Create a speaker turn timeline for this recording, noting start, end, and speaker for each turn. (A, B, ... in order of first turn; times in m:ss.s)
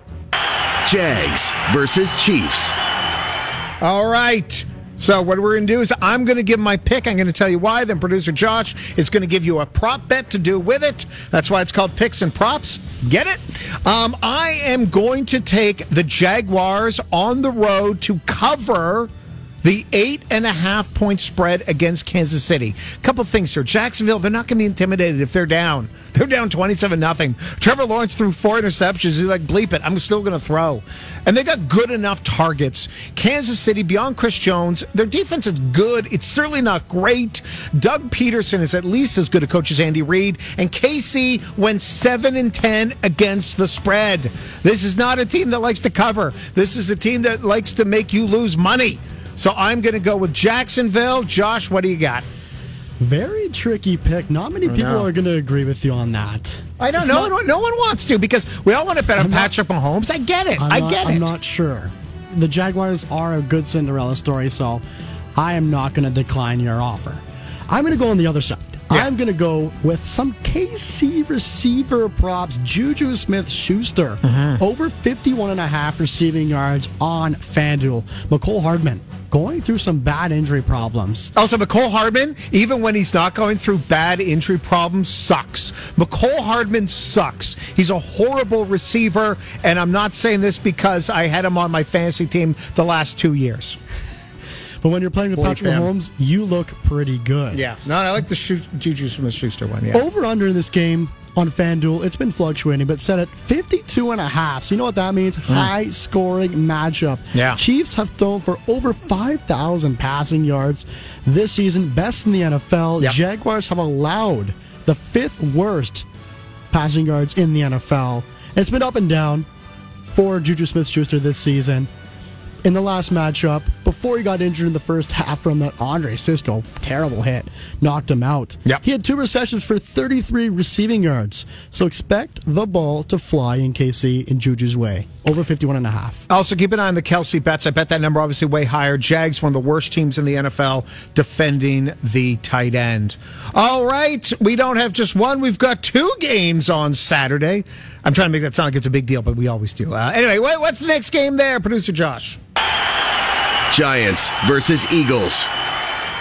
0:00.8-0:02.7 A
0:03.8-0:19.1 B
0:19.6-0:52.2 B
0:53.0-0:57.3 C
0:54.6-0:55.1 B
0:56.8-1:01.3 B
0:59.2-0:59.5 C
1:00.6-1:04.8 C
1:05.3-1:21.3 C
1:14.2-1:14.6 B
1:21.3-1:33.8 B
1:34.8-1:37.6 C
1:35.4-1:35.9 B
1:37.5-1:40.0 B
1:39.9-1:56.0 C
1:47.3-1:47.6 B
1:56.7-1:59.5 C
2:00.1-2:01.9 C
2:02.6-2:16.2 C
2:16.3-2:32.4 B
2:33.7-2:35.5 A